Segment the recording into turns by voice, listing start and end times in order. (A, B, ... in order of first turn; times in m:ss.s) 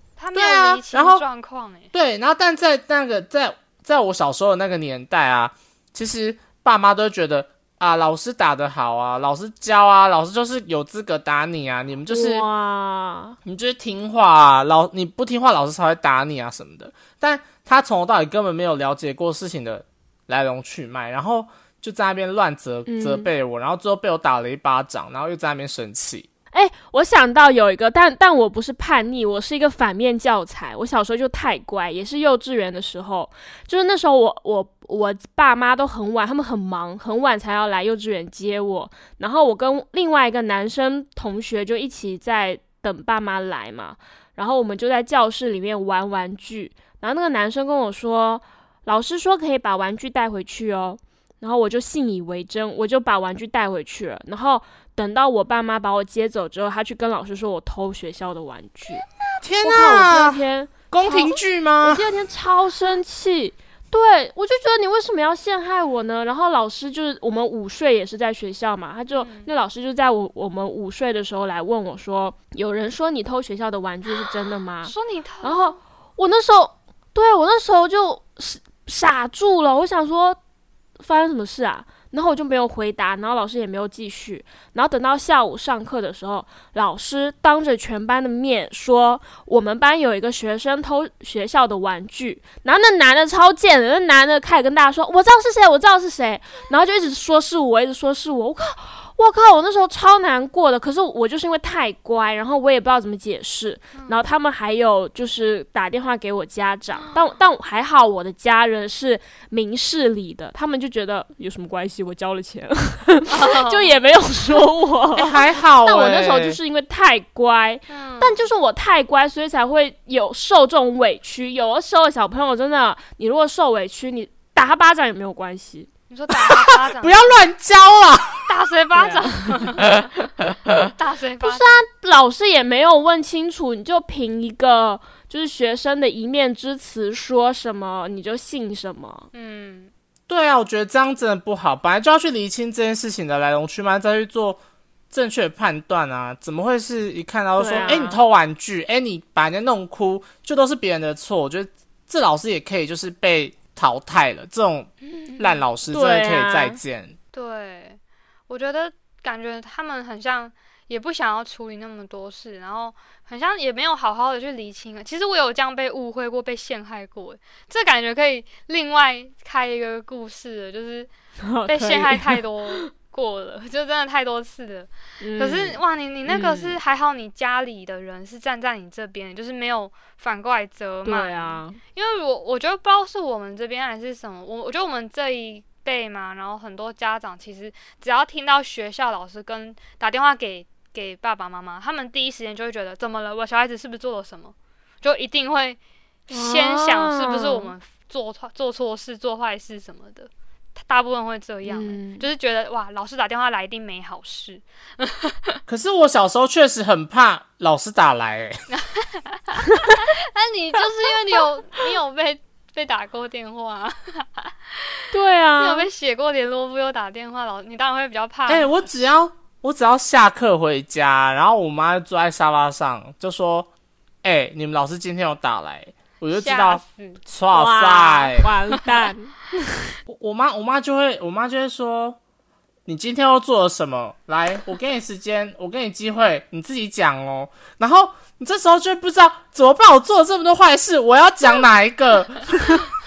0:00.2-0:01.9 A
0:00.3-0:01.2 B
0:01.9-0:12.4 B
0:12.1-0:13.4 C
0:13.4-0:26.3 B
0:22.9-0:23.3 C
0:26.5-0:59.0 C
0:59.4-1:02.1 B
0:59.6-1:20.4 C
1:09.1-1:09.5 A
1:14.8-1:15.8 A
1:21.0-2:05.9 C
1:44.0-1:44.2 A
1:47.0-1:47.3 A
1:53.3-1:54.0 A
1:55.2-1:56.6 B
1:57.9-1:58.5 A
2:06.1-2:07.4 A
2:06.5-2:08.5 B
2:08.5-2:10.0 A
2:10.9-2:11.8 A
2:11.4-2:19.3 C
2:19.3-2:19.9 A
2:20.3-2:24.6 B
2:25.1-2:37.2 B
2:27.6-2:28.2 C
2:35.0-2:35.6 A
2:35.9-2:36.8 C
2:37.3-2:51.1 A
2:51.4-2:52.9 C
2:51.7-3:25.6 A
2:55.2-2:56.8 C
3:01.0-3:01.8 C
3:16.3-3:17.7 C
3:21.6-3:22.3 C
3:25.7-3:28.6 B
3:28.7-3:38.7 A
3:35.1-3:35.9 C
3:38.5-3:43.7 B
3:44.2-3:48.5 B
3:46.3-3:47.2 A
3:47.5-3:50.0 C
3:50.1-3:52.2 B
3:52.9-4:02.8 B